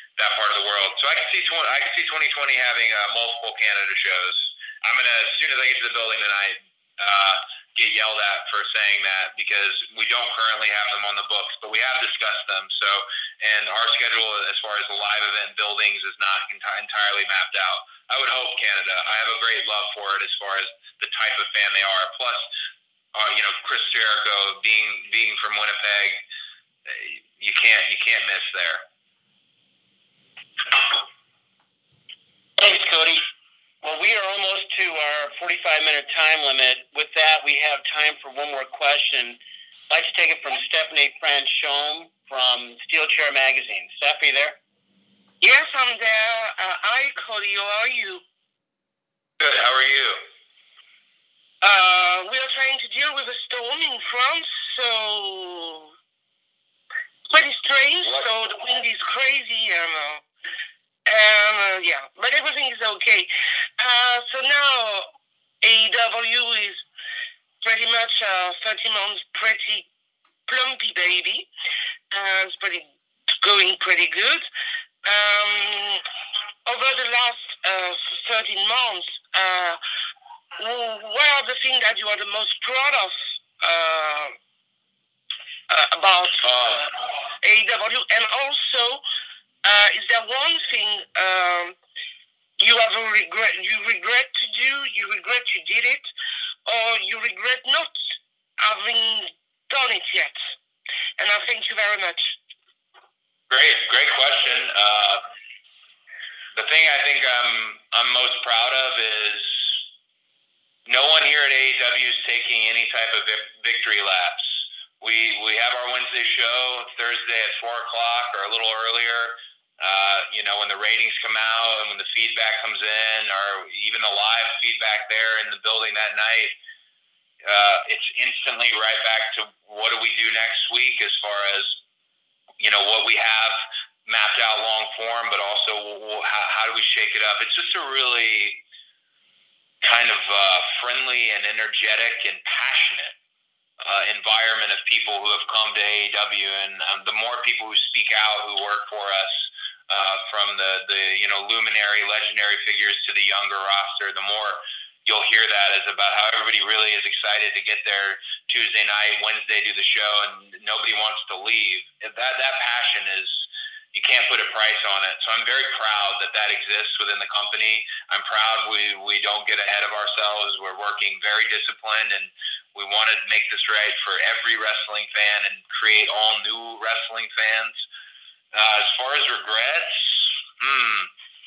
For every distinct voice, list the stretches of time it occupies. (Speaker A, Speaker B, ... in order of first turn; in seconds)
Speaker A: 0.2-22.5, 23.1-26.2, 26.9-28.8, 49.4-50.2, 86.5-86.8, 103.5-105.2, 106.5-109.8, 110.9-126.5, 127.4-131.8, 132.6-138.6, 139.8-143.1, 143.8-177.8, 178.5-181.1
Speaker B: 32.6-33.3, 33.8-39.4, 39.9-44.6
Speaker C: 45.4-48.2, 51.6-55.9, 57.3-60.2, 61.1-65.1, 65.6-66.8, 67.6-69.9, 70.5-71.5, 72.1-72.9, 73.4-74.5, 75.0-76.0, 76.7-79.8, 80.6-84.3, 85.7-89.0, 89.6-91.8, 92.6-96.0, 96.7-100.4, 101.2-102.4